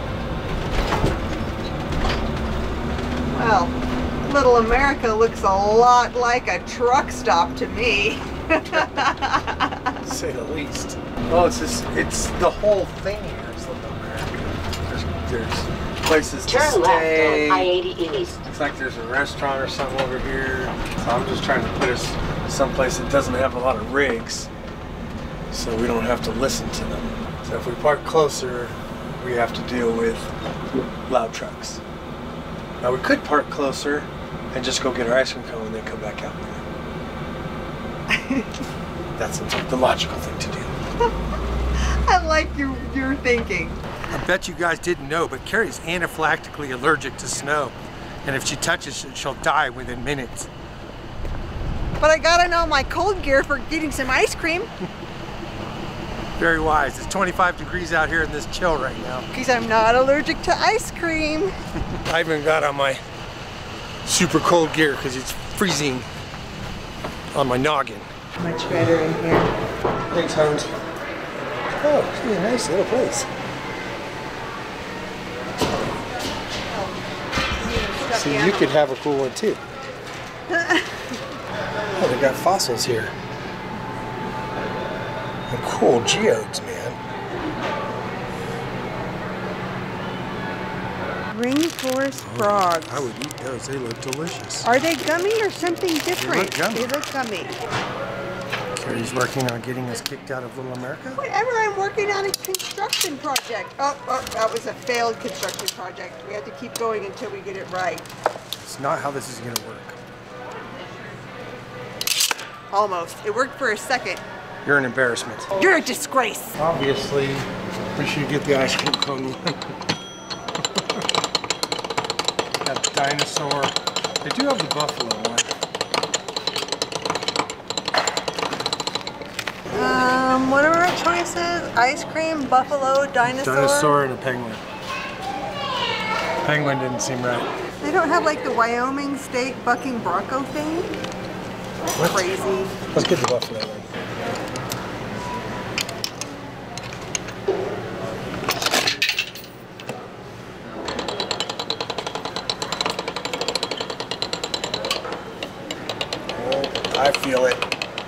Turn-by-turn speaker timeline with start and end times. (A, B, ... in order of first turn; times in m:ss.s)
0:03.3-0:09.9 A
0:10.0-0:17.7 B
0:16.4-0:18.4 C
0:18.4-0:24.5 B
0:25.5-0:30.3 B
0:31.1-0:31.8 B
0:32.8-0:36.6 B
0:38.1-0:38.6 A
0:39.2-0:40.7 B
0:41.7-0:43.8 A
0:44.1-0:50.5 B
0:52.0-0:54.7 A
0:56.4-0:59.3 B
0:59.3-1:01.5 A
1:02.0-1:03.0 B
1:04.0-1:06.1 B
1:07.3-1:08.1 B
1:08.4-1:09.5 A
1:10.1-1:10.7 B
1:11.8-1:13.3 B
1:16.7-1:16.9 A
1:17.6-1:18.7 A
1:18.1-1:19.6 B
1:20.5-1:21.1 A
1:22.0-1:23.1 B
1:25.5-1:27.0 B
1:31.3-1:33.1 A
1:32.2-1:34.7 B
1:34.6-1:37.6 A
1:36.1-1:36.9 B
1:38.8-1:41.2 B
1:41.2-1:48.1 A
1:48.6-1:50.0 B
1:52.7-1:54.2 A
1:54.6-1:55.6 B
1:55.5-1:56.6 A
1:56.6-1:59.7 B
2:00.7-2:01.0 B
2:02.6-2:05.5 B
2:09.7-2:14.0 A
2:13.2-2:14.6 B
2:16.4-2:17.5 B
2:17.8-2:21.0 A
2:21.9-2:22.8 A
2:22.0-2:22.2 B
2:22.9-2:23.9 B
2:36.3-2:37.6 B